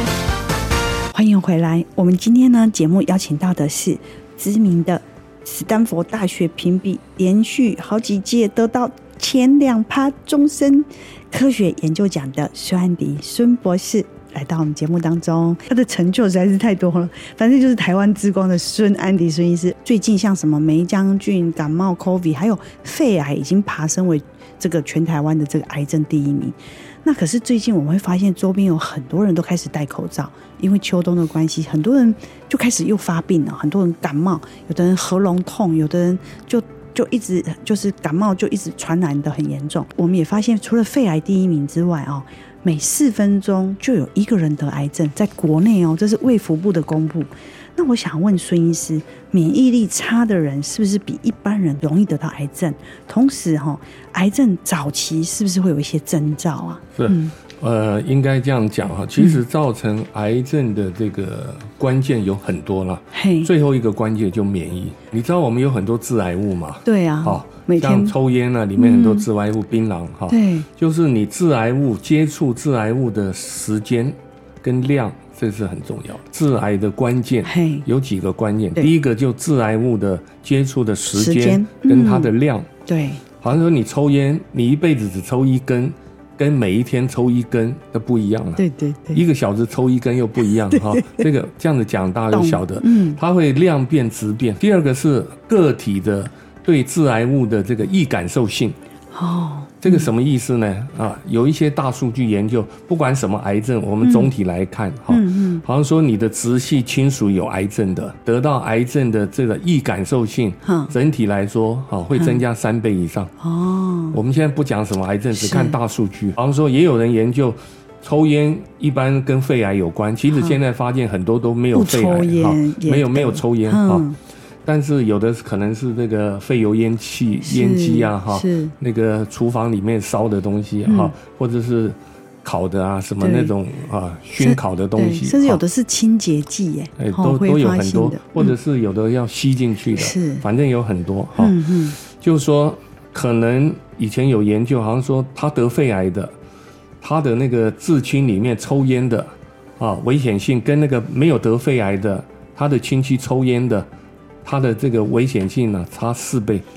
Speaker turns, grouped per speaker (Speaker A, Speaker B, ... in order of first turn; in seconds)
Speaker A: 1.1-57.4, 63.1-63.5, 66.8-68.1, 68.8-69.2, 70.3-70.7, 77.5-77.8, 81.2-82.3, 82.9-83.2, 88.6-89.2, 90.7-91.3, 92.3-93.2, 99.1-100.1, 104.0-104.3, 105.1-105.6, 110.7-110.9, 113.4-114.2, 115.4-115.8, 121.7-124.2, 127.4-128.7, 130.9-131.1, 133.2-133.5, 134.4-138.5, 140.0-140.4, 141.4-142.0
Speaker B: 57.0-82.7, 83.4-88.6, 89.1-98.8, 99.8-113.3, 114.1-124.1, 124.7-135.6, 137.0-146.3, 147.0-153.9, 154.4-156.6